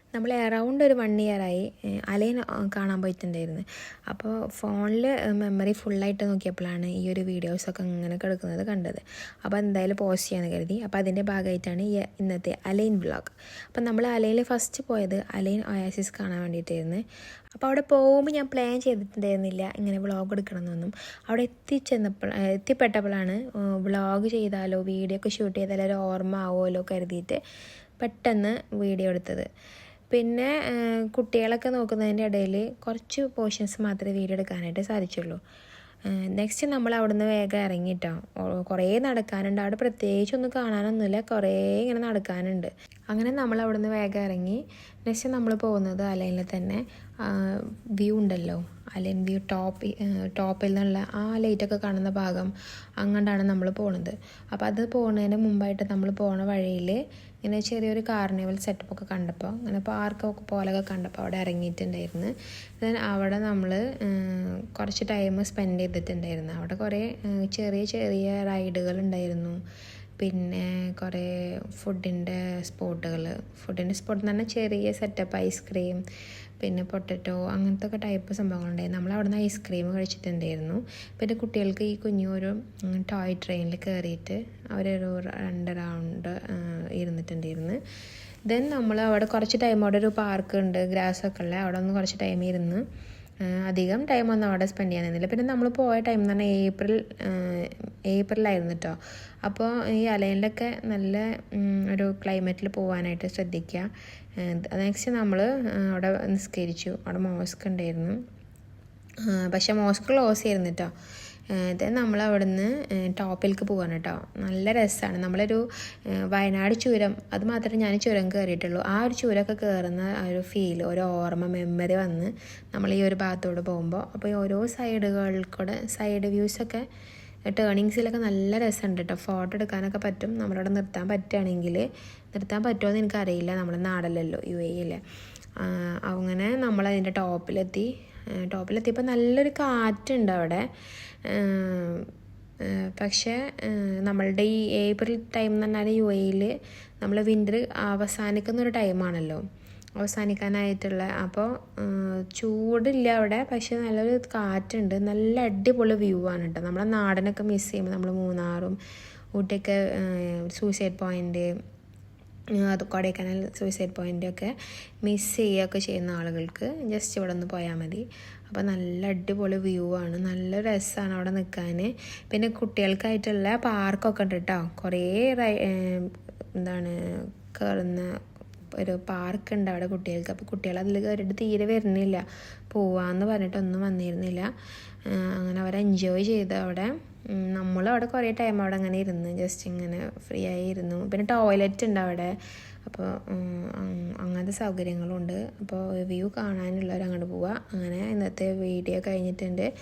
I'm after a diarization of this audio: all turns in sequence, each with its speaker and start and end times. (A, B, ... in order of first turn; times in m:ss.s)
0:00.1-0:17.0 A
0:17.6-0:27.4 A
0:28.0-0:29.5 A
0:30.1-0:35.4 A
0:36.2-1:09.6 A
1:10.2-1:16.0 A
1:16.6-1:27.8 A
1:28.5-1:32.8 A
1:33.5-1:48.2 A
1:49.2-1:50.9 A
1:51.5-1:55.6 A
1:56.3-2:06.8 A
2:07.5-2:15.0 A
2:15.6-2:20.6 A
2:21.2-2:22.1 A
2:22.6-2:29.4 A
2:30.0-2:38.8 A
2:39.4-2:41.5 A
2:42.6-2:58.1 A
2:58.7-3:04.5 A
3:05.1-3:12.3 A
3:12.8-3:19.7 A